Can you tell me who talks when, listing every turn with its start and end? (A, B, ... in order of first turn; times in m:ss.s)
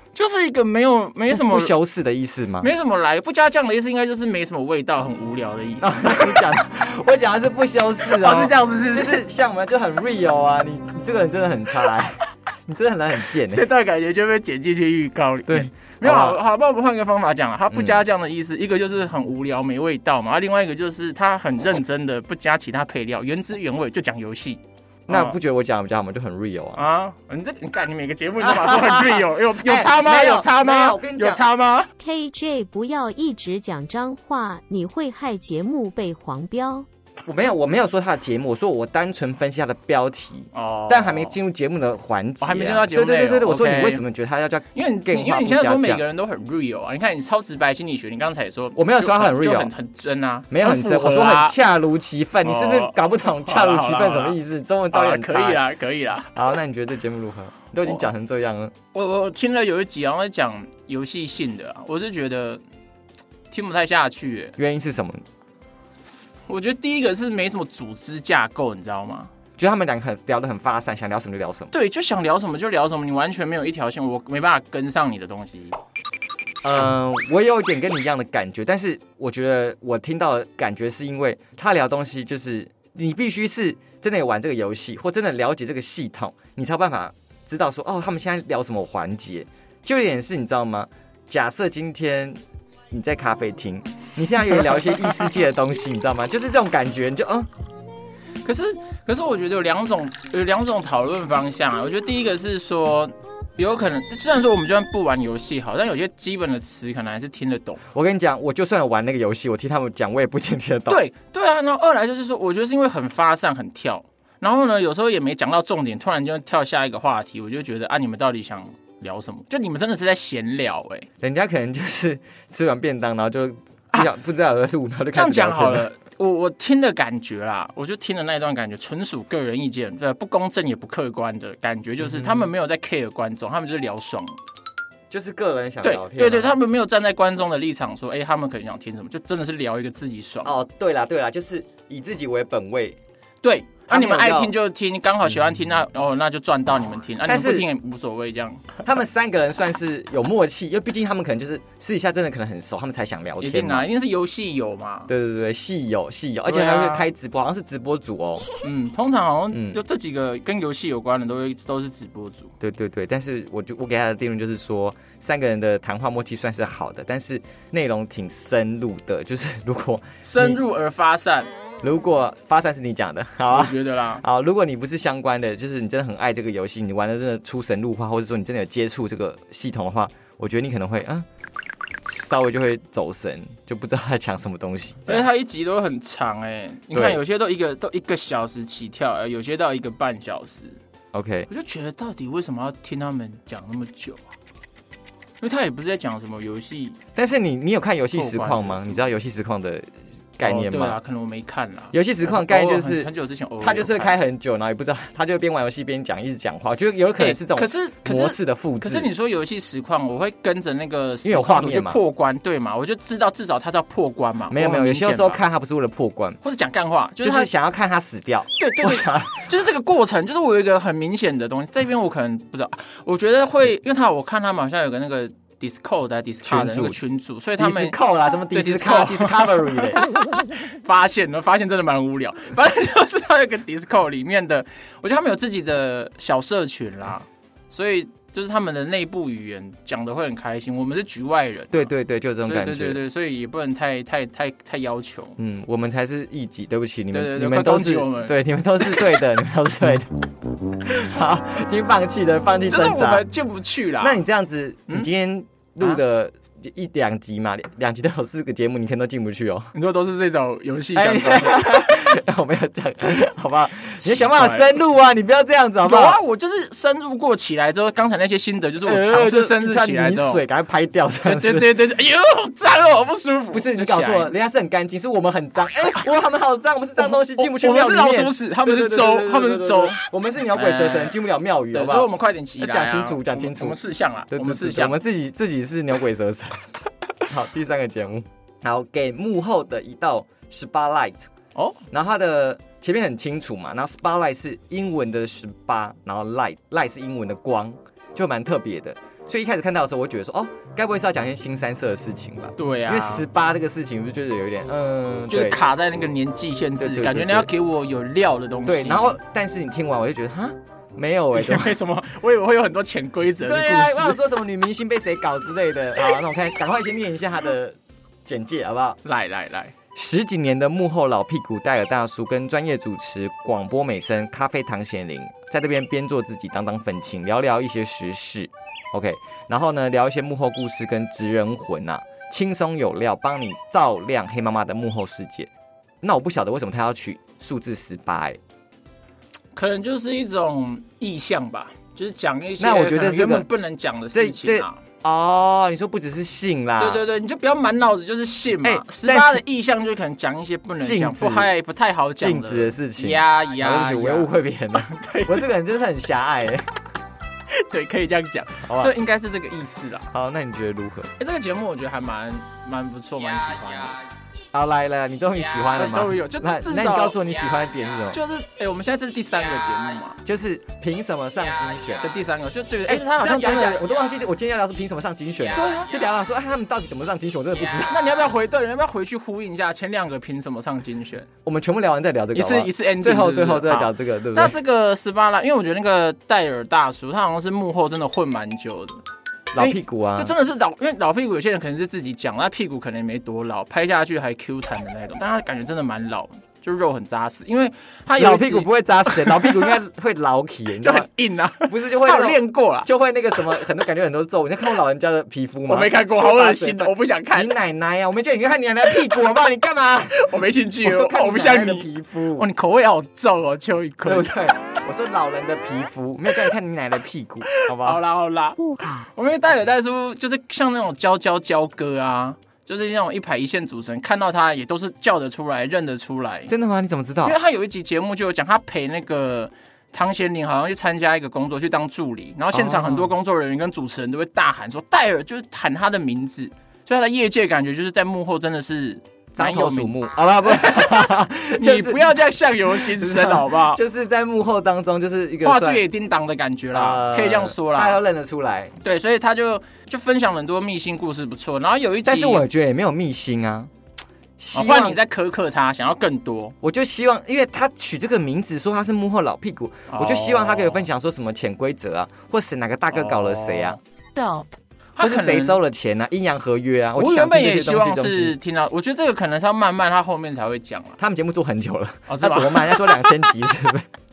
0:00.1-0:01.7 A
0:01.3-0:02.7 B
0:02.6-0:06.4 A
0:05.8-0:13.7 B
0:08.0-0:09.2 A
0:13.5-0:25.4 A
0:15.5-0:16.4 B
0:17.7-0:18.0 B
0:25.1-0:26.8 B
0:26.8-0:31.9 A
0:28.4-0:31.4 B
0:32.0-0:36.8 C
0:37.2-0:46.0 B
0:40.5-0:41.4 A
0:42.4-0:44.0 A
0:44.7-0:51.6 A
0:48.8-0:49.7 B
0:50.5-0:55.6 B
0:52.4-0:54.4 A
0:54.9-0:56.4 A
0:56.3-0:58.7 B
0:58.9-1:02.6 A
1:03.5-1:04.5 A
1:04.6-1:05.2 B
1:06.5-1:09.3 A
1:09.6-1:11.7 B
1:11.7-1:15.8 A
1:16.6-1:32.4 B
1:32.9-1:37.5 B
1:38.4-1:47.8 A
1:47.9-1:51.0 B
1:50.9-2:01.1 A
2:01.2-2:05.9 B
2:05.1-2:14.4 A
2:12.0-2:12.4 B
2:15.1-2:16.6 B
2:15.8-2:20.5 A
2:20.4-2:23.0 B
2:23.4-2:28.7 A
2:23.9-2:24.5 B
2:27.2-2:27.7 B
2:28.8-2:33.8 B
2:33.4-2:35.1 A
2:35.1-2:38.5 B
2:36.5-2:37.1 A
2:38.6-2:42.5 A
2:39.5-2:39.8 B
2:42.6-2:50.6 B
2:50.2-2:51.5 A
2:51.8-3:01.2 B
2:53.5-2:54.2 A
3:02.0-3:05.3 B
3:05.1-3:10.8 A
3:06.9-3:07.2 B
3:11.1-3:11.5 B
3:11.5-3:14.2 A
3:15.4-3:17.0 A
3:17.1-3:21.0 B
3:18.1-3:19.1 A
3:20.4-3:24.2 A
3:21.9-3:23.1 B
3:23.6-3:29.1 B
3:27.2-3:35.4 A
3:31.2-3:32.0 B
3:34.5-3:36.4 B
3:36.4-3:37.5 A
3:37.2-3:39.5 B
3:38.6-3:48.0 A
3:46.4-3:47.0 B
3:47.6-3:50.0 B
3:48.5-4:01.9 A
4:01.7-4:03.0 B
4:02.4-4:05.4 A
4:05.4-4:10.1 B
4:07.1-4:09.0 A
4:10.8-4:13.3 B
4:12.7-4:14.2 A
4:14.0-4:19.7 B
4:19.7-4:22.0 A
4:20.9-4:26.2 B
4:24.0-4:24.7 A
4:25.8-4:30.4 A
4:28.8-4:31.7 B
4:31.2-4:34.3 A
4:33.5-4:43.8 B
4:37.0-4:40.0 A
4:40.5-4:41.2 A
4:41.7-4:45.0 A
4:44.3-4:46.7 B
4:47.2-4:51.3 B
4:51.5-4:51.8 A
4:51.9-5:05.6 B
5:02.6-5:03.2 A
5:05.3-5:09.2 A
5:06.8-5:07.5 B
5:08.6-5:11.7 B
5:11.3-5:14.2 A
5:13.4-5:19.0 B
5:19.0-5:19.7 A
5:19.9-5:35.5 B
5:36.0-5:38.4 B
5:39.5-5:44.8 A
5:42.6-5:43.5 B
5:44.1-5:47.0 B
5:46.8-5:54.3 A
5:48.6-5:49.4 B
5:50.8-5:51.5 B
5:52.2-5:56.7 B
5:54.9-5:55.5 A
5:57.5-6:00.1 A
5:58.6-5:58.9 B
6:00.1-6:01.1 B
6:01.2-6:04.0 A
6:04.5-6:08.2 B
6:05.7-6:07.2 A
6:08.1-6:10.2 A
6:10.2-6:12.1 B
6:12.0-6:13.8 A
6:12.8-6:18.0 B
6:15.5-6:15.9 A
6:17.8-6:21.3 A
6:21.4-6:24.6 B
6:22.3-6:29.0 A
6:29.5-6:30.3 B
6:29.6-6:39.8 A
6:38.2-6:41.1 B
6:40.8-6:43.4 A
6:41.6-6:52.5 B
6:45.7-6:47.6 A
6:50.1-6:54.4 A
6:54.0-6:58.0 B
6:57.5-7:06.5 A
7:06.5-7:07.4 B
7:07.2-7:23.8 A
7:12.5-7:13.1 B
7:19.3-7:25.8 B
7:25.4-7:28.0 A
7:26.7-7:28.7 B
7:28.8-7:32.4 A
7:32.0-7:33.7 B
7:34.4-7:35.0 B
7:34.5-7:36.6 A
7:36.6-7:43.8 B
7:39.9-7:40.9 A
7:42.9-7:43.8 A
7:44.0-7:44.5 C
7:45.0-7:45.6 A
7:45.0-7:48.4 B
7:47.0-7:51.0 A
7:51.0-7:53.9 B
7:52.1-7:53.1 A